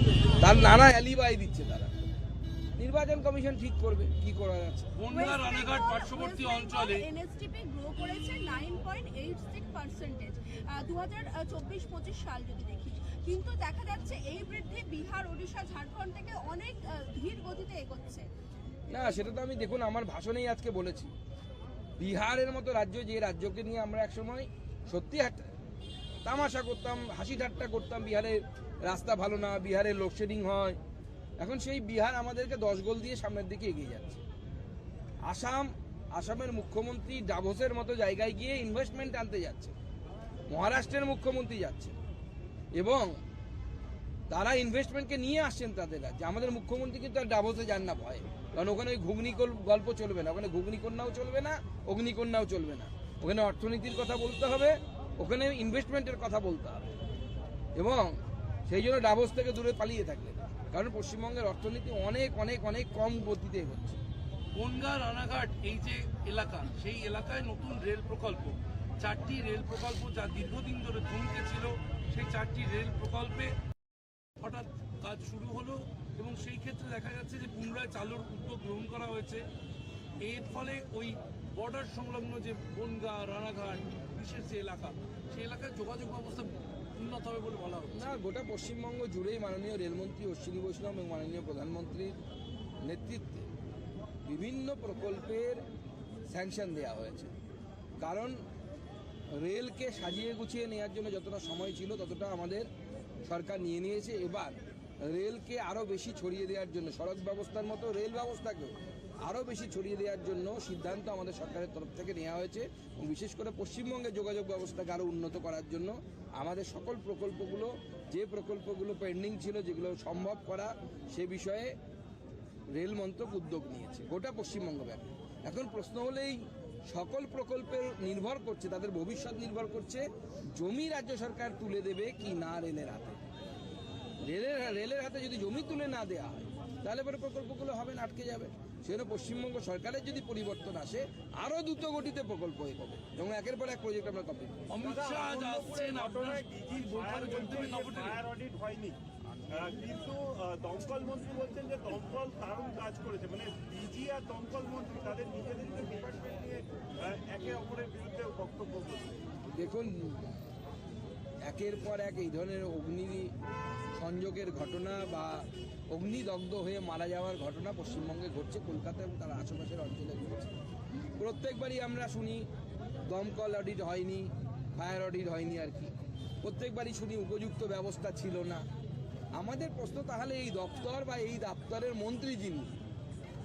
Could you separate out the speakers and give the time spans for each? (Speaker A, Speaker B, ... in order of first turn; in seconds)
Speaker A: 0.4-1.9, 2.8-4.9, 18.9-21.1, 22.0-25.5, 26.2-30.8, 31.4-34.2, 35.3-39.8, 40.5-42.0, 42.7-43.2, 44.3-56.9, 57.8-64.0, 87.9-92.2, 92.8-93.5, 94.2-95.6, 96.3-97.3, 98.0-98.4, 99.3-102.7, 103.2-121.7, 122.7-133.2, 134.2-144.6, 159.5-160.3, 161.4-163.3, 163.9-170.6, 171.2-172.5, 173.1-178.7, 179.3-182.7
Speaker B: 5.0-7.1, 64.5-73.6, 74.4-79.5, 80.2-88.2, 144.7-148.2
Speaker C: 5.1-18.3
Speaker D: 144.8-149.0, 149.5-159.2